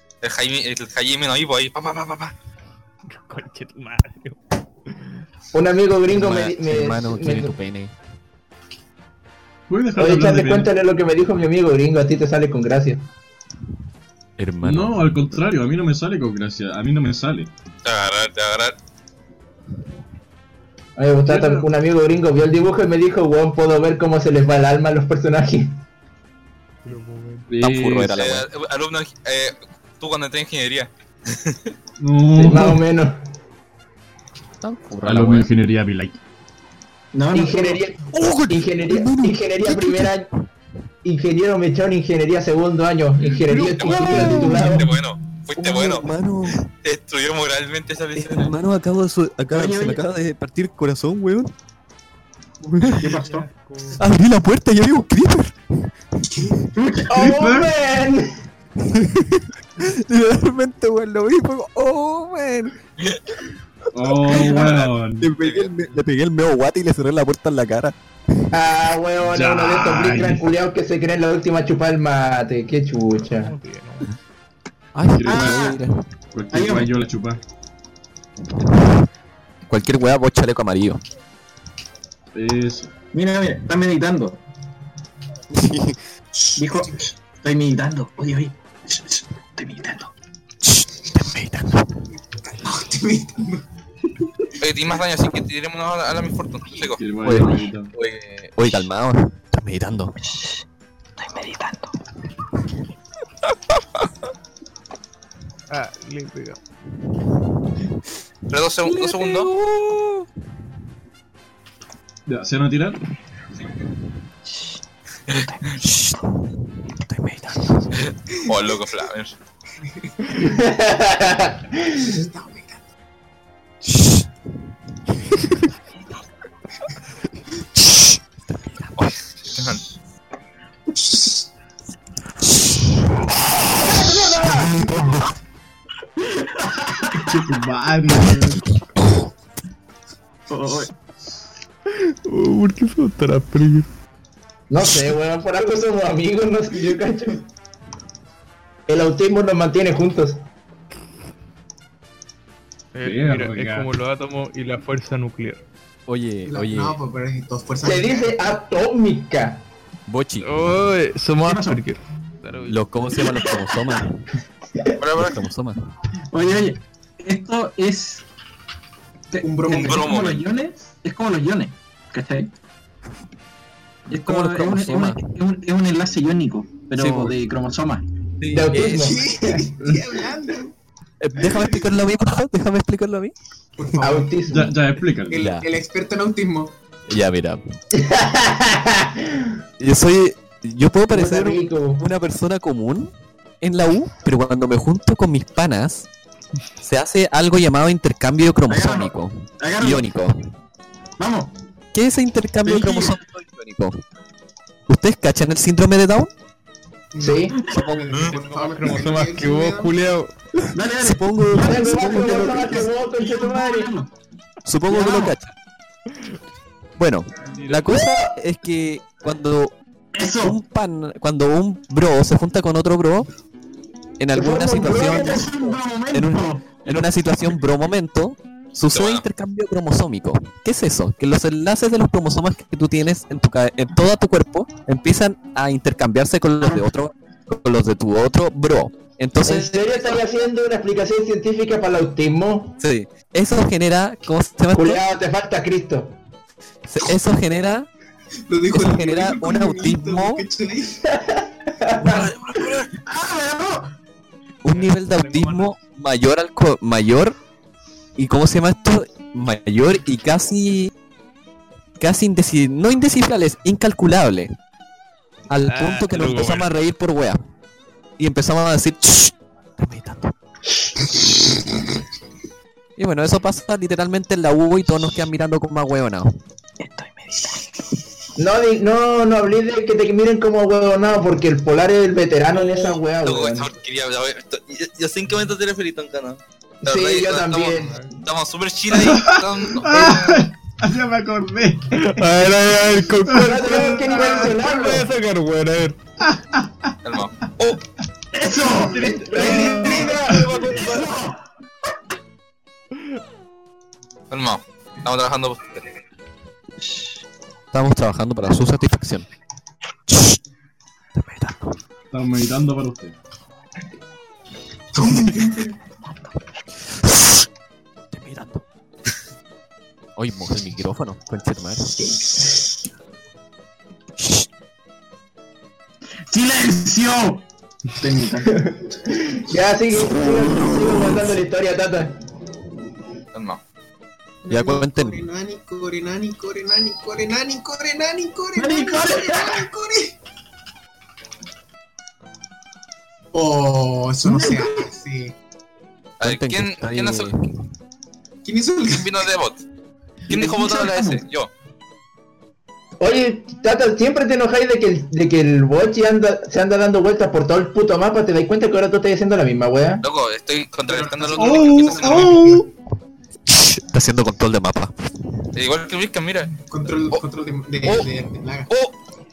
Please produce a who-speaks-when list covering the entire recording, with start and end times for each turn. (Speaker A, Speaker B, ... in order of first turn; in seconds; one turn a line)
Speaker A: 0.2-2.3
Speaker B: 3.1-4.4
Speaker C: 5.5-7.5
Speaker D: 6.1-7.9
Speaker E: 9.7-10.7
Speaker C: 10.0-13.1
Speaker D: 14.4-15.2
Speaker E: 14.6-17.5
Speaker A: 17.8-18.8
Speaker C: 21.0-25.8
Speaker E: 21.3-21.7
Speaker B: 26.9-27.5
Speaker E: 27.5-28.2
Speaker D: 27.6-28.5
Speaker A: 28.1-31.7
Speaker E: 32.0-32.9
Speaker C: 32.3-33.2
Speaker D: 34.6-35.5
Speaker E: 35.0-36.2
Speaker F: 37.1-37.8
Speaker C: 37.3-40.3
Speaker D: 38.1-40.2
Speaker C: 41.0-45.0
Speaker A: 43.7-46.1
Speaker D: 43.8-44.8
Speaker D: 45.6-46.6
Speaker A: 46.8-48.5
Speaker D: 48.1-51.5
Speaker F: 49.5-50.0
Speaker D: 52.6-53.2
Speaker F: 53.0-53.5
Speaker B: 53.0-54.0
Speaker D: 54.0-55.5
Speaker F: 56.7-57.1
Speaker C: 57.1-58.3
Speaker E: 57.1-57.7
Speaker D: 58.8-62.8
Speaker E: 63.9-65.3
Speaker D: 64.1-68.0
Speaker F: 64.3-64.8
Speaker A: 65.4-65.7
Speaker C: 68.5-73.5
Speaker E: 69.2-70.5
Speaker B: 73.3-74.1
Speaker D: 75.0-76.0
Speaker E: 75.1-75.7
Speaker F: 75.3-75.8
Speaker E: 76.3-77.4
Speaker F: 76.5-76.9
Speaker D: 78.7-79.0
Speaker D: 79.7-81.0
Speaker E: 82.3-82.9
Speaker F: 83.1-84.4
Speaker D: 85.5-86.0
Speaker F: 86.6-90.1
Speaker D: 90.6-91.9
Speaker G: 92.4-93.6
Speaker A: 94.6-97.0
Speaker E: 97.0-97.9
Speaker D: 97.2-100.2
Speaker F: 100.2-100.6
Speaker F: 101.2-101.9
Speaker B: 105.7-106.6
Speaker A: 108.5-109.5
Speaker D: 108.8-110.3
Speaker E: 112.3-113.0
Speaker F: 115.3-115.7
Speaker D: 115.8-116.2
Speaker D: 116.9-118.0
Speaker A: 118.4-119.4
Speaker C: 120.3-122.2
Speaker G: 122.2-122.9
Speaker D: 123.8-124.2
Speaker D: 127.8-129.1
Speaker A: 129.0-129.8
Speaker C: 133.7-134.8
Speaker D: 134.7-135.2
Speaker F: 136.4-137.0
Speaker E: 137.1-138.6
Speaker F: 140.5-140.9
Speaker B: 141.9-143.9
Speaker C: 144.7-147.5
Speaker C: 148.9-150.4
Speaker B: 152.9-155.6
Speaker E: 153.0-153.9
Speaker D: 156.1-157.0
Speaker G: 156.5-158.4
Speaker C: 157.8-159.7
Speaker D: 160.1-160.5
Speaker B: 160.4-162.8
Speaker F: 161.4-161.8
Speaker D: 162.7-164.2
Speaker A: 165.0-165.4
Speaker D: 165.1-165.8
Speaker F: 166.3-168.2
Speaker F: 169.3-172.5
Speaker G: 169.4-170.2
Speaker A: 169.7-170.4
Speaker F: 174.1-178.1
Speaker D: 174.1-175.2
Speaker D: 177.0-177.3
Speaker D: 178.4-178.9
Speaker C: 178.5-179.7
Speaker A: 178.7-179.1
Speaker G: 178.9-180.7
Speaker D: 181.2-183.3
Speaker G: 183.8-184.3
Speaker C: 184.0-184.8
Speaker E: 184.5-185.4
Speaker G: 185.3-186.7
Speaker D: 185.3-185.7
Speaker D: 187.1-187.6
Speaker C: 187.9-189.6
Speaker D: 189.8-193.1
Speaker C: 191.1-192.1
Speaker D: 193.6-196.1
Speaker D: 196.8-200.4
Speaker F: 198.7-200.1
Speaker F: 201.2-201.5
Speaker D: 201.9-204.0
Speaker F: 202.6-203.2
Speaker D: 204.9-206.3
Speaker G: 207.1-210.0
Speaker C: 207.2-207.6
Speaker D: 207.7-208.3
Speaker B: 208.3-210.3
Speaker F: 210.7-214.1
Speaker D: 210.8-212.5
Speaker C: 211.6-213.9
Speaker D: 214.7-215.6
Speaker F: 214.8-215.4
Speaker D: 217.0-219.8
Speaker B: 217.5-217.9
Speaker F: 220.1-220.6
Speaker D: 220.3-223.3
Speaker D: 224.2-225.5
Speaker C: 224.3-225.8
Speaker F: 224.8-226.7
Speaker D: 226.1-240.2
Speaker A: 228.9-229.3
Speaker C: 239.4-242.8
Speaker D: 242.8-245.0
Speaker C: 244.7-246.2
Speaker D: 246.8-247.9
Speaker G: 248.5-251.0
Speaker D: 248.7-250.4
Speaker C: 251.1-252.3
Speaker A: 252.0-252.9
Speaker F: 252.9-253.9
Speaker D: 254.6-257.4
Speaker B: 254.7-255.8
Speaker D: 258.2-260.9
Speaker D: 262.0-264.5
Speaker D: 265.5-267.4
Speaker B: 265.6-266.7
Speaker D: 268.2-270.3
Speaker D: 273.0-276.4
Speaker F: 276.8-278.0
Speaker C: 278.4-283.7
Speaker A: 283.2-290.4
Speaker C: 286.8-287.9
Speaker B: 287.8-288.1
Speaker E: 288.9-292.6
Speaker B: 291.9-296.0
Speaker E: 293.2-294.6
Speaker C: 293.3-295.1
Speaker E: 296.2-297.0
Speaker A: 297.0-297.8
Speaker F: 298.3-299.2
Speaker E: 298.9-300.4
Speaker C: 299.0-300.6
Speaker F: 299.9-301.4
Speaker A: 304.3-305.9
Speaker F: 306.8-307.1
Speaker D: 307.7-309.3
Speaker D: 310.1-310.4
Speaker D: 311.1-311.8
Speaker E: 312.1-313.1
Speaker G: 314.9-315.8
Speaker F: 315.0-315.5
Speaker D: 317.1-317.3
Speaker D: 318.1-318.6
Speaker D: 320.2-321.9
Speaker D: 324.2-324.5
Speaker F: 326.3-327.4
Speaker F: 327.9-328.6
Speaker C: 328.5-332.2
Speaker A: 333.3-333.6
Speaker G: 334.4-340.2
Speaker D: 334.5-335.2
Speaker F: 338.6-339.7
Speaker G: 343.3-345.4
Speaker F: 344.3-344.8
Speaker A: 346.2-347.3
Speaker D: 346.2-347.5
Speaker G: 348.4-349.2
Speaker A: 348.9-349.6
Speaker F: 350.3-351.2
Speaker A: 350.3-351.5
Speaker C: 353.0-360.0
Speaker A: 360.0-362.5
Speaker G: 360.9-362.7
Speaker E: 361.4-362.7
Speaker D: 363.5-364.9
Speaker A: 365.5-367.2
Speaker G: 366.7-368.7
Speaker A: 367.8-368.1